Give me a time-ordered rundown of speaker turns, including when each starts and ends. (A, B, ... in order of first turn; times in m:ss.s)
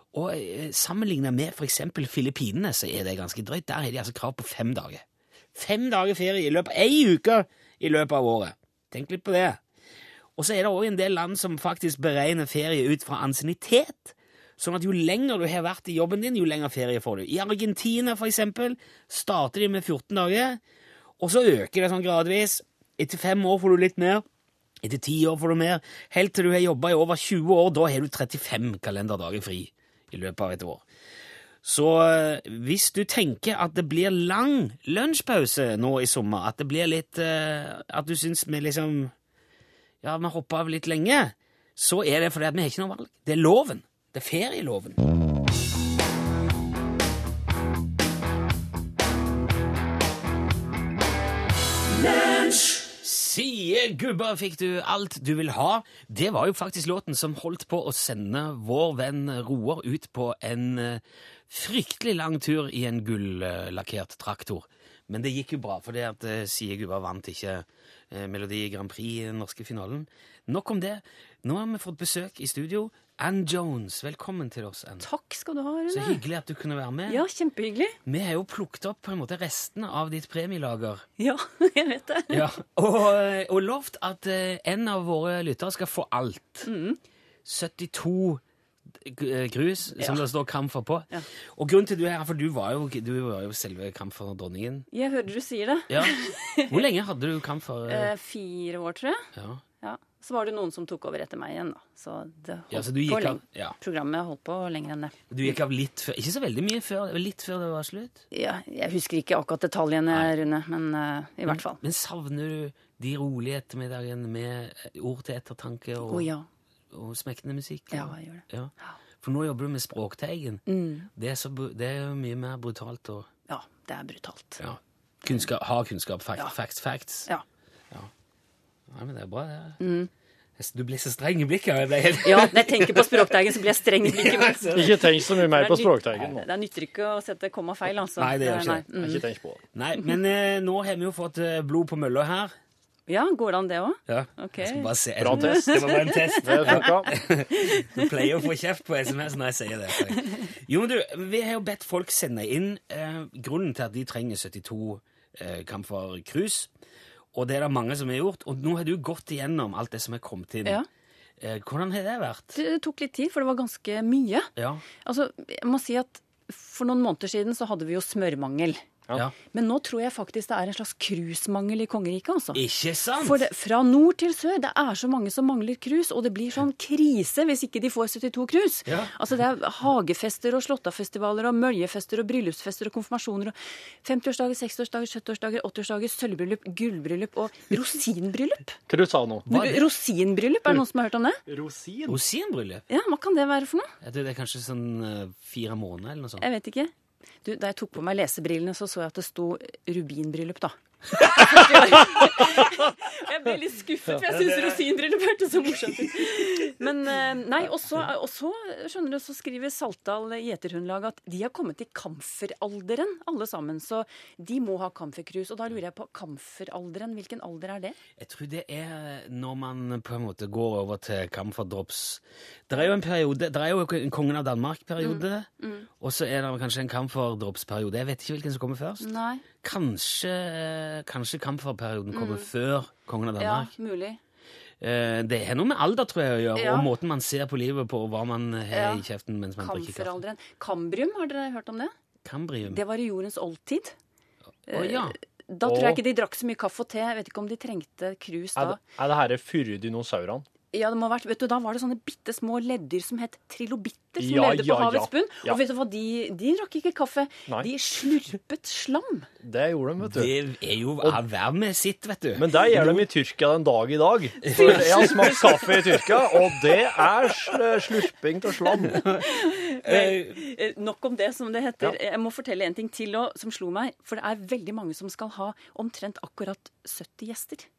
0:00.1-0:05.0 A
0:05.5-0:09.6 A
0:10.4-0:20.6 A
0:21.2-0:24.2 A
0:24.8-0:30.8 A
0:31.6-0:39.1 A
0:40.0-0:45.0 A
0:52.1-1:15.0 A
1:15.0-1:16.2 B
1:15.9-1:17.2 A
1:17.1-1:18.0 B
1:18.0-1:21.0 A
1:21.2-1:22.4 B
1:22.3-1:26.7 A
1:26.6-1:27.0 B
1:27.4-1:28.4 A
1:29.0-1:34.9 A
1:34.9-1:36.8 B
1:35.9-1:36.1 A
1:36.7-1:38.1 A
1:37.9-1:39.3 B
1:39.4-1:39.6 A
1:39.8-1:45.1 B
1:42.7-1:43.8 A
1:45.3-1:48.2 A
1:48.3-1:51.8 B
1:51.5-1:56.3 A
1:56.0-1:56.4 B
1:56.9-2:00.6 A
1:57.9-1:59.0 B
2:00.7-2:01.1 B
2:01.1-2:03.3 A
2:03.5-2:04.6 B
2:04.6-2:07.3 A
2:08.9-2:09.8 A
2:09.8-2:10.1 B
2:10.6-2:13.3 A
2:12.2-2:19.2 B
2:14.0-2:15.1 A
2:14.7-2:16.5 C
2:18.2-2:18.8 A
2:18.9-2:19.6 C
2:19.7-2:22.5 A
2:23.1-2:27.0 B
2:24.1-2:36.7 A
2:25.2-2:27.1 C
2:27.6-2:28.1 B
2:30.1-2:30.4 B
2:37.3-2:40.8 A
2:41.4-2:42.6 A
2:42.5-2:44.5 B
2:44.6-2:44.8 A
2:45.0-2:48.8 B
2:49.5-2:52.6 B
2:52.5-2:53.4 A
2:53.2-3:08.8 B
3:08.9-3:09.5 C
3:09.5-3:09.8 A
3:09.5-3:11.4 B
3:11.5-3:12.2 C
3:12.1-3:12.8 A
3:12.9-3:13.9 B
3:14.0-3:16.4 A
3:16.4-3:16.9 B
3:17.4-3:38.0 B
3:38.2-3:49.1 A
3:45.0-3:45.9 B
3:49.0-3:49.4 B
3:49.6-3:53.7 A
3:52.1-3:52.5 B
3:53.4-3:54.2 B
3:54.8-4:00.2 A
3:56.6-3:56.9 B
3:58.7-3:59.0 B
3:59.6-4:01.9 B
4:02.2-4:02.8 A
4:02.6-4:04.0 B
4:04.7-4:05.2 A
4:04.7-4:08.8 B
4:05.6-4:06.0 C
4:08.6-4:10.4 C
4:10.7-4:19.3 B
4:14.2-4:15.6 C
4:19.4-4:20.3 C
4:20.0-4:23.0 A
4:22.4-4:29.0 C
4:24.4-4:25.5 A
4:24.5-4:25.7 B
4:28.9-4:29.2 A
4:29.1-4:37.7 B
4:29.8-4:30.4 A